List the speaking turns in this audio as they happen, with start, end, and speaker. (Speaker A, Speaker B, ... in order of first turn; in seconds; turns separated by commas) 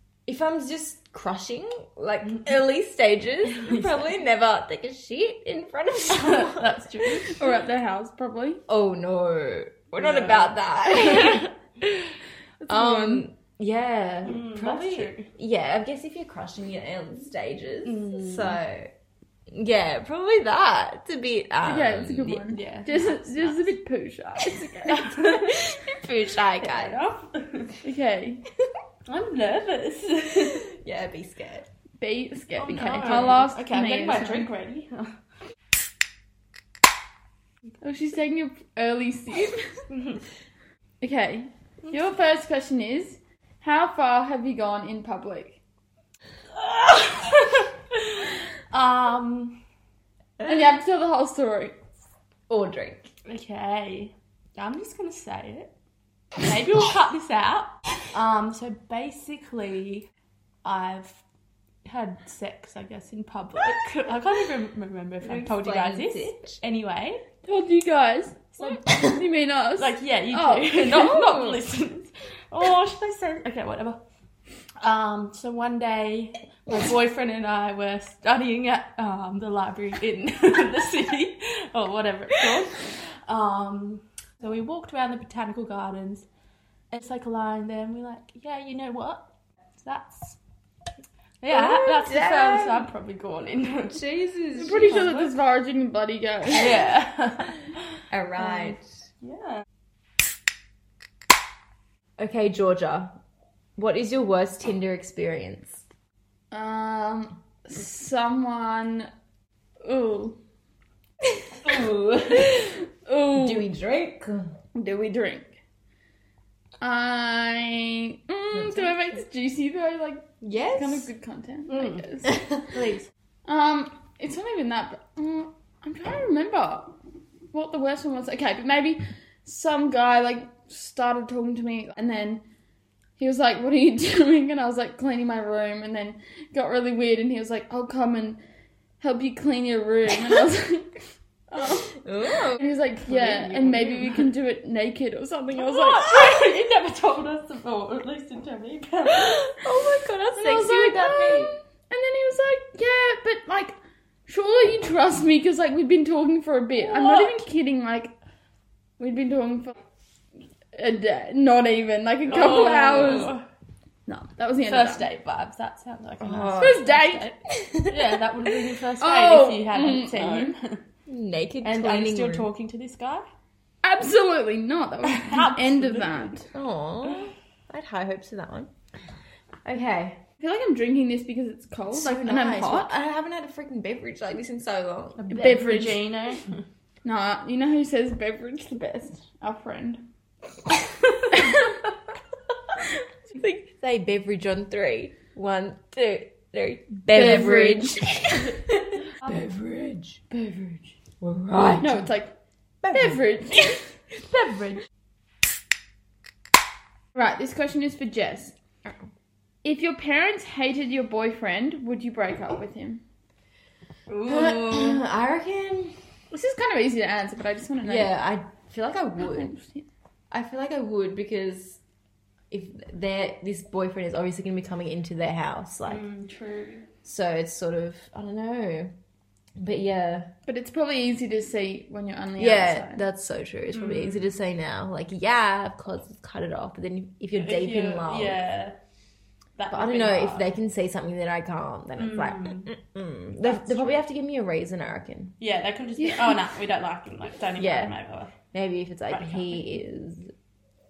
Speaker A: 0.2-7.2, Speaker B: 6.1-7.4, Speaker C: 7.3-8.6, Speaker A: 8.7-18.9, Speaker B: 10.0-10.4, Speaker C: 12.6-13.2, Speaker B: 14.2-15.3, Speaker B: 17.9-18.6, Speaker A: 19.5-22.5, Speaker C: 21.6-25.1, Speaker B: 22.5-23.6, Speaker B: 24.9-25.6, Speaker A: 25.3-27.0, Speaker B: 26.6-27.8, Speaker C: 27.8-28.4, Speaker B: 29.1-30.7, Speaker A: 30.6-31.7, Speaker C: 32.0-34.5, Speaker A: 32.6-33.4, Speaker B: 32.6-35.2, Speaker C: 37.8-39.8, Speaker B: 39.9-40.2, Speaker C: 41.0-45.6, Speaker B: 46.6-47.6, Speaker B: 48.7-49.6, Speaker C: 50.4-51.8, Speaker A: 52.5-53.1, Speaker B: 53.2-55.7, Speaker B: 56.4-60.1, Speaker B: 60.6-61.2, Speaker B: 61.8-67.2, Speaker A: 65.2-66.6, Speaker C: 67.4-71.1, Speaker B: 69.8-74.0, Speaker A: 71.0-71.6, Speaker B: 74.8-86.2, Speaker B: 86.9-89.3, Speaker B: 89.8-90.4, Speaker B: 91.4-94.1, Speaker A: 91.5-92.9, Speaker A: 93.9-95.1, Speaker C: 94.5-96.8, Speaker B: 94.9-95.3, Speaker B: 96.5-97.5, Speaker A: 98.1-98.9, Speaker B: 98.4-99.6, Speaker A: 102.2-103.2, Speaker A: 103.8-105.8, Speaker C: 106.5-109.1, Speaker C: 109.8-110.4, Speaker A: 111.6-112.7, Speaker C: 113.0-113.7, Speaker A: 113.3-114.5, Speaker C: 114.7-115.6, Speaker C: 116.8-122.4, Speaker A: 120.4-121.1, Speaker B: 121.7-122.0, Speaker A: 122.2-122.6, Speaker B: 122.7-123.1, Speaker C: 123.5-127.0, Speaker C: 127.5-132.4, Speaker C: 133.2-138.4, Speaker C: 139.0-142.0, Speaker A: 141.9-142.6, Speaker C: 142.6-146.1, Speaker B: 143.1-144.2, Speaker B: 145.6-149.5, Speaker A: 149.1-151.5, Speaker C: 150.3-153.7, Speaker C: 154.3-158.1, Speaker C: 159.0-159.8, Speaker C: 160.7-163.3, Speaker B: 162.3-163.4, Speaker C: 164.1-165.1, Speaker B: 164.7-167.2, Speaker A: 166.2-168.0, Speaker C: 166.6-167.3, Speaker B: 167.8-170.8, Speaker C: 169.0-170.5, Speaker A: 171.1-172.5, Speaker B: 171.6-173.2, Speaker C: 173.8-176.5, Speaker B: 175.0-176.3, Speaker A: 176.5-178.7, Speaker A: 179.6-180.2, Speaker C: 180.4-182.9, Speaker A: 181.9-185.3, Speaker B: 185.2-186.6, Speaker C: 185.3-186.1, Speaker C: 187.0-190.0, Speaker A: 193.3-200.2, Speaker C: 197.1-198.1, Speaker C: 200.3-200.9, Speaker A: 201.2-202.0, Speaker C: 201.8-202.3, Speaker A: 202.8-203.2, Speaker C: 202.9-203.8, Speaker B: 204.3-204.8, Speaker C: 207.1-208.5, Speaker C: 209.6-213.0, Speaker B: 214.1-214.7, Speaker A: 214.2-216.0, Speaker C: 216.3-218.1, Speaker A: 217.8-219.5, Speaker C: 219.2-219.8, Speaker A: 220.3-221.8, Speaker A: 222.5-226.0, Speaker B: 225.9-226.8, Speaker A: 227.0-228.9, Speaker A: 229.6-230.3, Speaker C: 230.4-233.0, Speaker A: 232.4-238.4, Speaker B: 233.7-234.3, Speaker B: 237.3-238.8, Speaker B: 239.6-240.5, Speaker A: 239.7-245.3, Speaker B: 242.0-242.7, Speaker B: 243.4-244.0, Speaker B: 245.4-248.3, Speaker A: 247.6-247.9, Speaker A: 248.5-250.3, Speaker B: 249.1-249.6